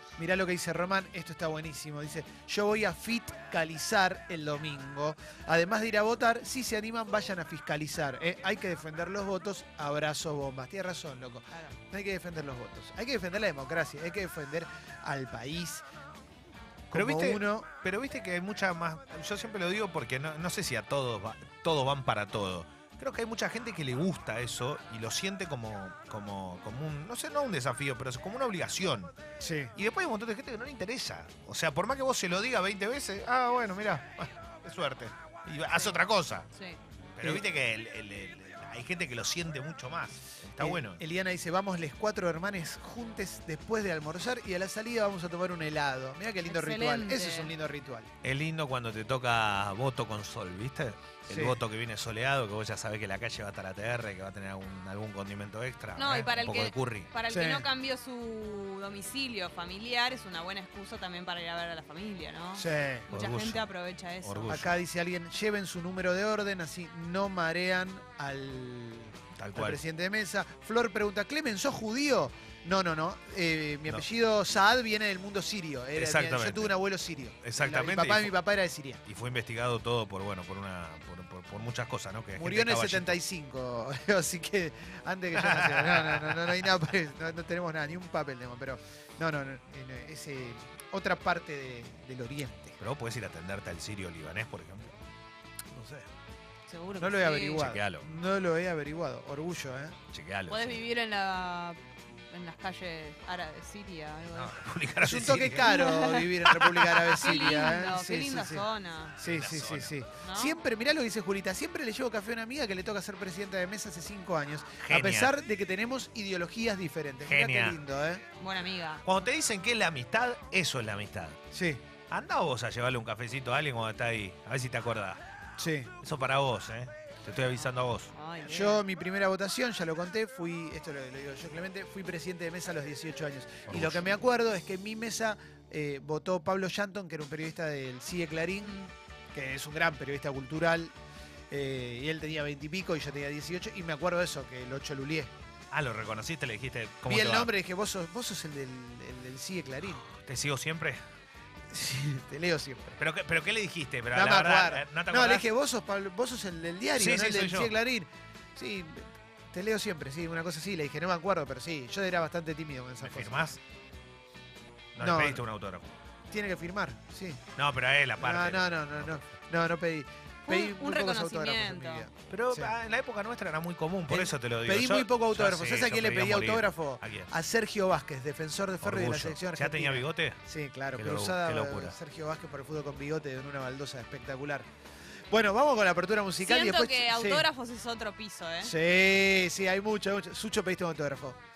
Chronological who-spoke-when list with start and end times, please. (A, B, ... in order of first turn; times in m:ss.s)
0:00.2-0:15.8 A
0:16.9-0:17.7 A
0:16.9-0:29.1 B
0:29.4-0:29.7 A
0:29.7-0:36.5 B
0:36.5-0:36.8 C
0:37.1-0:41.0 B
0:40.6-0:48.1 A
0:46.5-0:47.5 C
0:48.2-0:57.1 B
0:51.3-0:51.6 A
0:56.0-1:04.6 C
0:57.3-0:57.7 A
1:02.5-1:03.1 A
1:03.1-1:03.6 B
1:04.2-1:04.8 B
1:04.5-1:19.0 A
1:09.4-1:09.8 B
1:15.9-1:16.8 B
1:17.4-1:18.3 B
1:19.1-1:23.2 B
1:22.3-1:32.8 A
1:25.3-1:26.6 B
1:32.8-1:35.0 B
1:35.7-1:36.1 A
1:36.7-1:37.6 C
1:37.0-1:40.0 A
1:37.5-1:38.1 B
1:40.1-1:40.8 B
1:40.5-1:41.8 C
1:42.3-1:44.6 C
1:44.3-1:45.8 B
1:45.0-1:48.7 A
1:45.6-1:46.3 C
1:46.6-1:47.5 B
1:47.2-1:49.2 C
1:49.2-1:58.2 A
1:49.2-1:49.9 B
1:50.2-1:50.6 C
1:54.8-1:55.3 B
1:57.2-1:57.8 B
1:58.4-1:59.0 C
1:59.0-2:01.4 B
2:01.5-2:01.8 A
2:02.1-2:05.2 B
2:05.6-2:05.9 A
2:06.0-2:08.1 B
2:08.1-2:08.8 C
2:08.4-2:18.8 A
2:13.7-2:14.1 B
2:18.6-2:18.9 C
2:19.3-2:20.9 A
2:21.5-2:25.3 A
2:25.7-2:27.5 B
2:27.0-2:30.0 A
2:30.0-2:31.0 B
2:31.7-2:33.0 A
2:33.0-2:35.4 B
2:34.1-2:43.4 A
2:37.0-2:37.7 B
2:43.0-2:43.6 B
2:44.9-2:45.9 B
2:45.0-2:45.4 A
2:46.3-2:47.4 A
2:47.6-2:49.3 B
2:48.2-2:52.7 A
2:50.4-2:52.1 C
2:52.3-2:57.3 B
2:54.1-3:04.7 A
2:58.8-3:00.4 B
3:01.0-3:01.9 B
3:05.3-3:07.5 A
3:06.4-3:08.7 C
3:08.6-3:11.4 A